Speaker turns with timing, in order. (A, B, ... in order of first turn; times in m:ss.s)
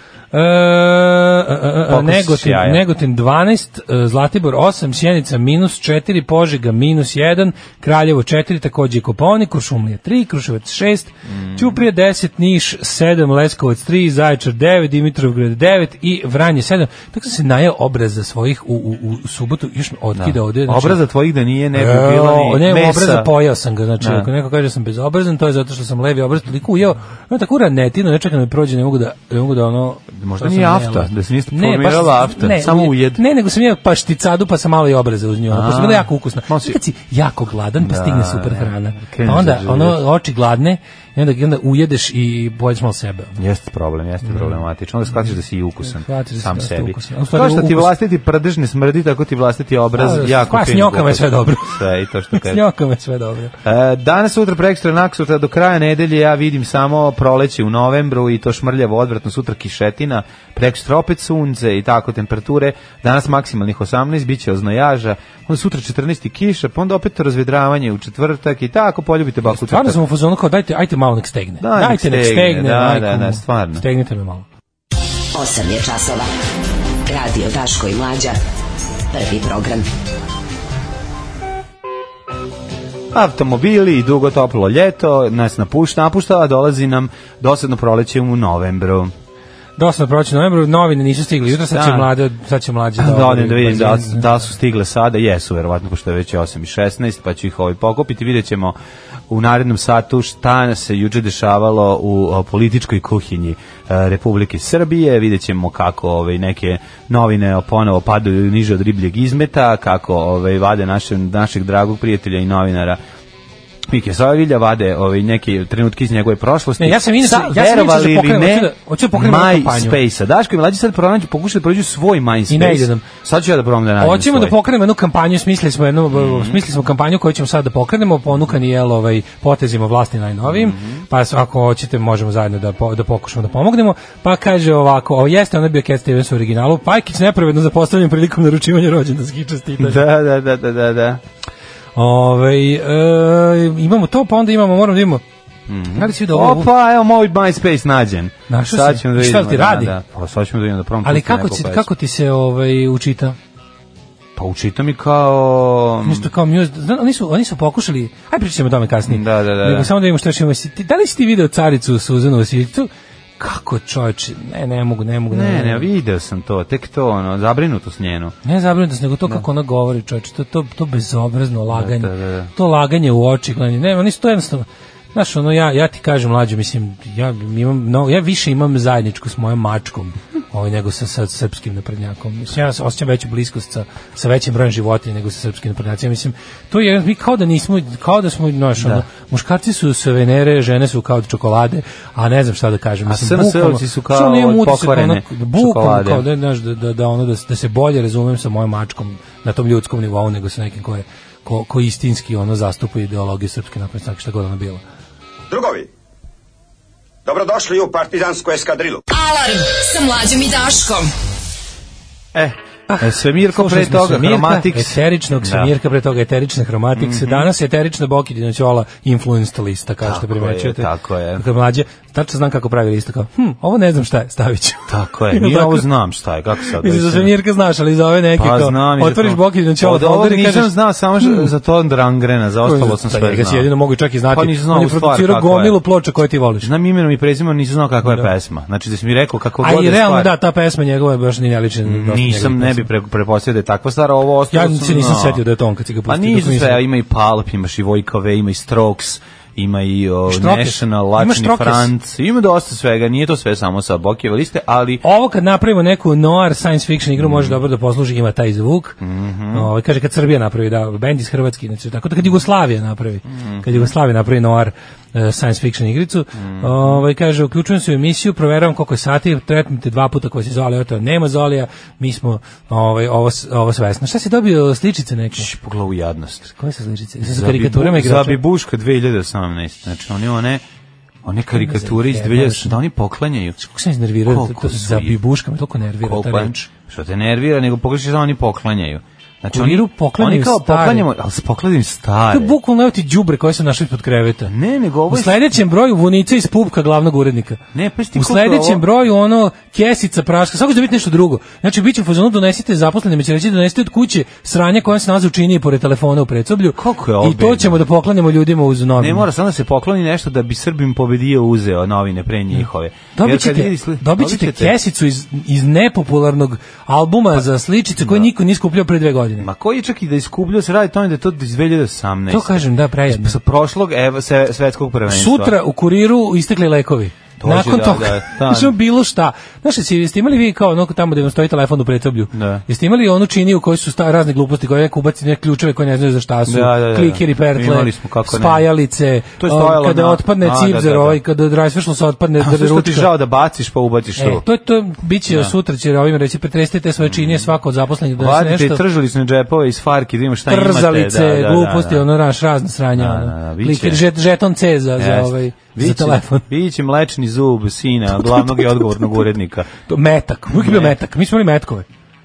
0:00.3-0:21.0 A
0:01.9-0:02.8 B
0:11.3-0:11.8 B
0:20.1-0:23.3 B
0:21.7-0:43.4 A
0:24.0-0:24.3 B
0:30.1-0:33.2 B
0:35.5-0:36.8 B
0:37.8-0:40.0 B
0:43.4-0:52.6 B
0:44.3-0:44.6 A
0:45.8-0:47.9 A
0:50.0-0:51.8 A
0:52.3-0:53.6 A
0:53.6-1:10.0 B
1:09.5-1:14.4 A
1:11.6-1:13.8 B
1:15.3-1:16.3 C
1:17.0-1:18.4 C
1:19.1-1:19.9 C
1:23.1-1:29.1 B
1:29.8-1:34.3 A
1:31.6-1:32.1 B
1:33.0-1:38.8 B
1:39.3-1:53.0 B
1:53.9-2:04.6 B
1:56.8-2:00.0 A
2:02.5-2:03.0 A
2:04.0-2:20.0 A
2:06.1-2:06.6 B
2:10.4-2:11.0 B
2:19.8-2:21.2 B
2:22.0-2:25.2 A
2:25.7-2:31.9 B
2:25.9-2:26.7 A
2:28.5-2:29.9 A
2:31.0-2:33.4 A
2:34.4-2:36.3 B
2:36.0-2:45.9 A
2:39.0-2:39.9 B
2:45.3-2:48.4 B
2:48.4-3:24.8 A
2:51.7-2:52.5 B
3:08.8-3:09.0 B
3:13.0-3:16.2 B
3:25.5-3:25.9 D
3:27.2-3:29.0 D
3:29.1-3:31.1 E
3:32.3-3:35.7 B
3:32.9-3:45.9 A
3:37.0-3:37.5 B
3:40.0-3:41.4 B
3:44.9-3:47.3 B
3:46.7-3:51.5 A
3:48.4-3:53.7 B
3:52.6-3:56.7 A
3:54.3-3:55.8 B
3:56.6-4:00.3 B
3:59.6-4:02.9 A
4:01.8-4:05.4 B
4:04.5-4:06.8 A
4:06.1-4:15.0 B
4:10.3-4:11.9 A
4:15.0-4:19.0 A
4:17.2-4:17.6 B
4:19.0-4:19.7 B
4:19.5-4:35.5 A
4:23.3-4:23.9 B
4:26.4-4:27.0 B
4:35.3-4:36.5 B
4:36.5-4:38.4 A
4:37.2-4:40.6 B
4:41.2-4:43.6 B
4:41.6-4:42.8 A
4:43.6-4:46.7 A
4:44.2-4:45.2 B
4:46.0-4:52.6 B
4:49.5-4:51.1 A
4:52.3-4:54.5 A
4:54.5-4:55.4 B
4:55.1-4:57.6 A
4:57.7-4:58.8 B
4:58.1-5:09.3 A
5:06.7-5:07.8 B
5:09.0-5:14.7 B
5:13.1-5:19.5 A
5:18.0-5:18.3 B
5:19.4-5:25.6 B
5:22.3-5:23.4 A
5:25.1-5:43.1 A
5:27.4-5:28.7 B
5:32.3-5:32.6 B
5:36.4-5:38.7 B
5:39.4-5:41.2 B
5:42.4-5:44.4 B
5:44.2-5:48.8 A
5:47.0-5:47.5 B
5:48.2-5:52.0 B
5:50.5-5:56.4 A
5:53.0-5:54.0 B
5:55.0-5:59.7 B
5:58.1-5:59.3 A
5:59.9-6:01.9 A
6:00.5-6:01.0 B